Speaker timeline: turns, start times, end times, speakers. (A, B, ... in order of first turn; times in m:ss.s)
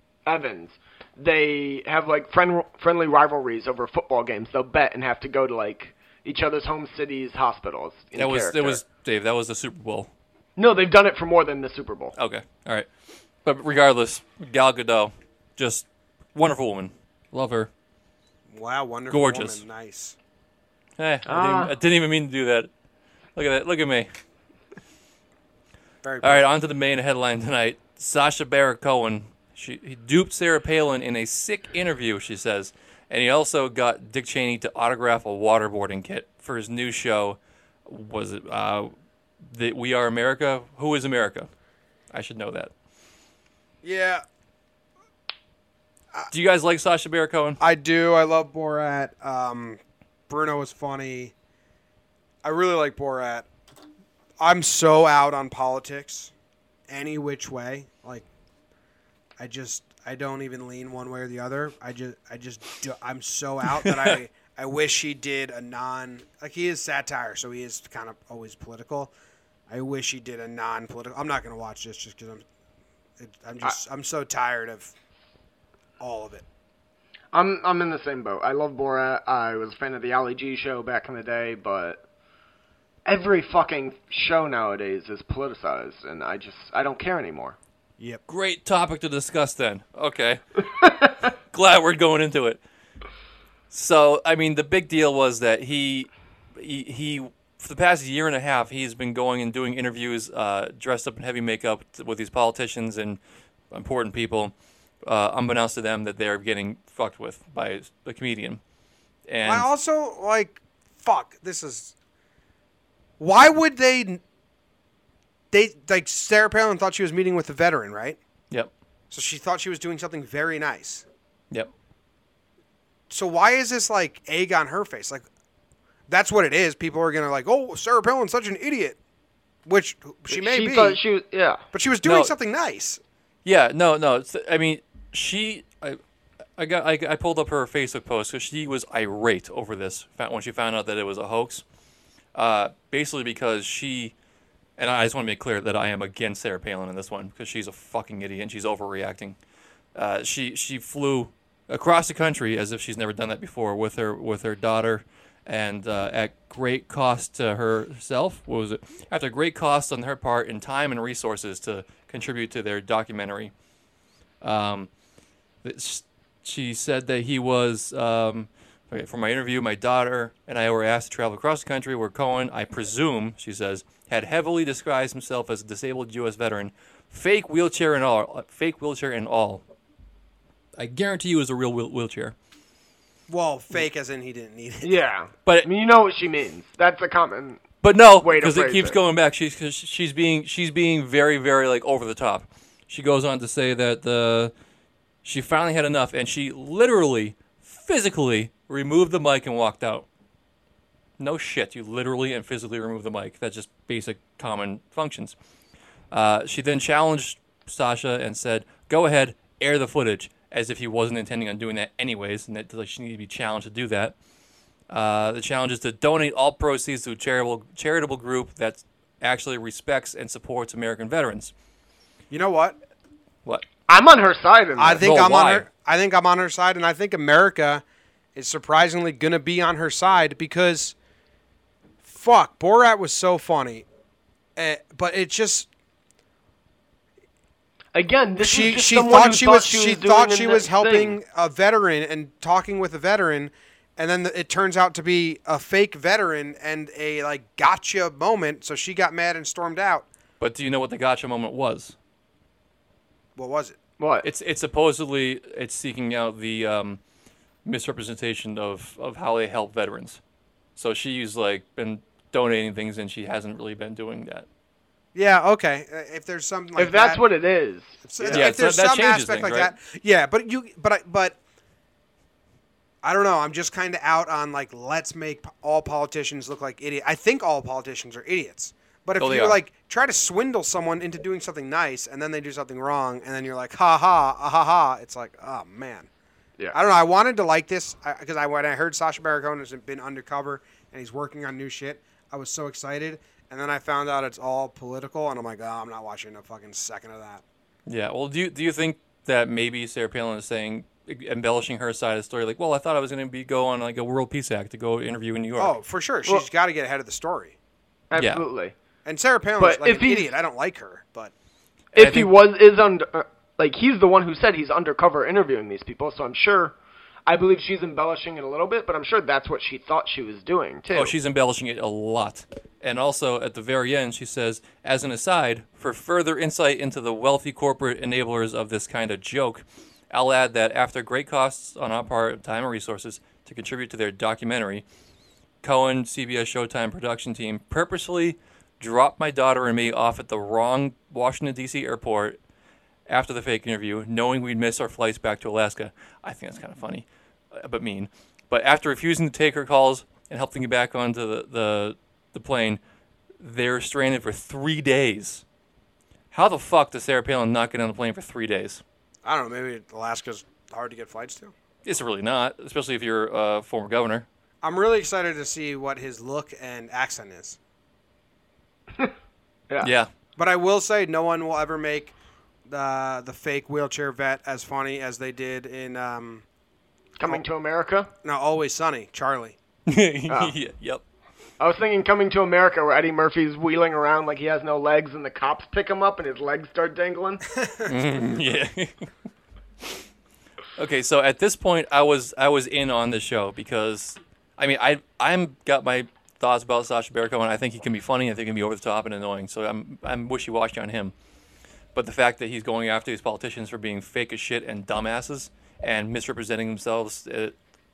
0:00.2-0:08.8 A
0:08.2-0:10.1 B
0:10.6-0:12.1 A
0:12.2-0:12.9 B
0:13.4-0:17.7 B
0:18.5-0:20.2 C
0:19.1-0:19.6 B
0:21.0-0:22.7 B
0:21.2-0:21.7 A
0:23.4-0:24.1 B
0:26.0-0:26.5 C
0:26.2-0:38.9 B
0:39.5-0:41.5 B
0:42.1-0:42.7 B
0:43.8-0:44.2 C
0:46.3-0:47.6 B
0:47.6-0:51.3 C
0:52.4-0:53.5 C
0:54.4-0:56.3 C
0:56.9-0:58.2 C
0:59.4-1:09.1 C
1:03.7-1:04.2 B
1:09.7-1:12.4 C
1:13.2-1:14.9 C
1:16.0-1:16.4 C
1:17.3-1:22.0 A
1:23.0-1:27.6 A
1:28.3-1:30.4 B
1:30.8-1:31.1 A
1:31.5-1:32.6 B
1:33.7-1:43.2 B
1:43.7-1:44.5 B
1:45.0-1:48.6 B
1:49.3-1:49.7 B
1:49.4-1:51.9 C
1:53.2-1:54.2 C
1:55.5-1:58.2 C
1:59.1-2:01.0 C
2:03.1-2:05.2 C
2:06.1-2:09.0 C
2:09.6-2:11.0 C
2:10.3-2:11.6 A
2:11.7-2:13.0 C
2:12.0-2:12.3 B
2:13.4-2:16.0 B
2:16.6-2:21.6 B
2:22.3-2:24.1 B
2:24.8-2:29.4 B
2:29.9-2:43.5 B
2:44.4-2:44.9 B
2:45.6-2:59.6 B
3:00.8-3:02.3 B
3:03.3-3:04.9 C
3:04.8-3:07.6 A
3:07.8-3:14.5 B
3:08.2-3:09.0 A
3:15.2-3:20.0 B
3:21.2-3:25.4 B
3:26.1-3:34.1 B
3:34.9-3:41.5 B
3:42.3-3:42.8 C
3:43.9-3:45.0 A
3:44.8-3:47.8 C
3:45.0-3:45.6 B
3:48.3-3:50.9 C
3:52.0-3:53.8 C
3:54.6-3:55.7 C
3:57.9-4:01.2 A
3:58.4-4:10.1 C
4:10.4-4:12.0 B
4:13.4-4:13.8 C
4:14.0-4:14.3 A
4:14.2-4:17.0 B
4:17.6-4:20.2 B
4:20.8-4:24.5 B
4:25.1-4:27.2 C
4:26.8-4:28.5 A
4:28.0-4:31.4 C
4:28.3-4:29.7 B
4:33.0-4:46.1 C
4:39.2-4:39.6 B
4:46.7-4:57.4 C
4:57.9-5:05.8 B
5:05.6-5:07.6 C
5:08.1-5:08.7 A
5:08.2-5:08.4 B
5:09.0-5:11.3 C
5:09.6-5:10.3 A
5:11.9-5:16.7 A
5:11.9-5:12.3 B
5:17.3-5:21.1 A
5:20.9-5:34.8 B
5:35.6-5:42.4 B
5:43.1-5:52.8 B
5:53.4-5:55.4 B
5:56.3-5:58.8 B
5:59.2-6:01.5 C
6:01.8-6:04.2 B
6:04.6-6:07.6 C
6:09.8-6:10.1 B
6:10.4-6:12.1 C
6:12.7-6:16.4 C
6:17.2-6:18.1 A
6:18.2-6:19.6 C
6:19.9-6:21.0 B
6:21.6-6:27.4 A
6:27.6-6:27.9 C
6:27.8-6:29.1 B
6:30.8-6:41.1 B
6:41.9-6:47.5 B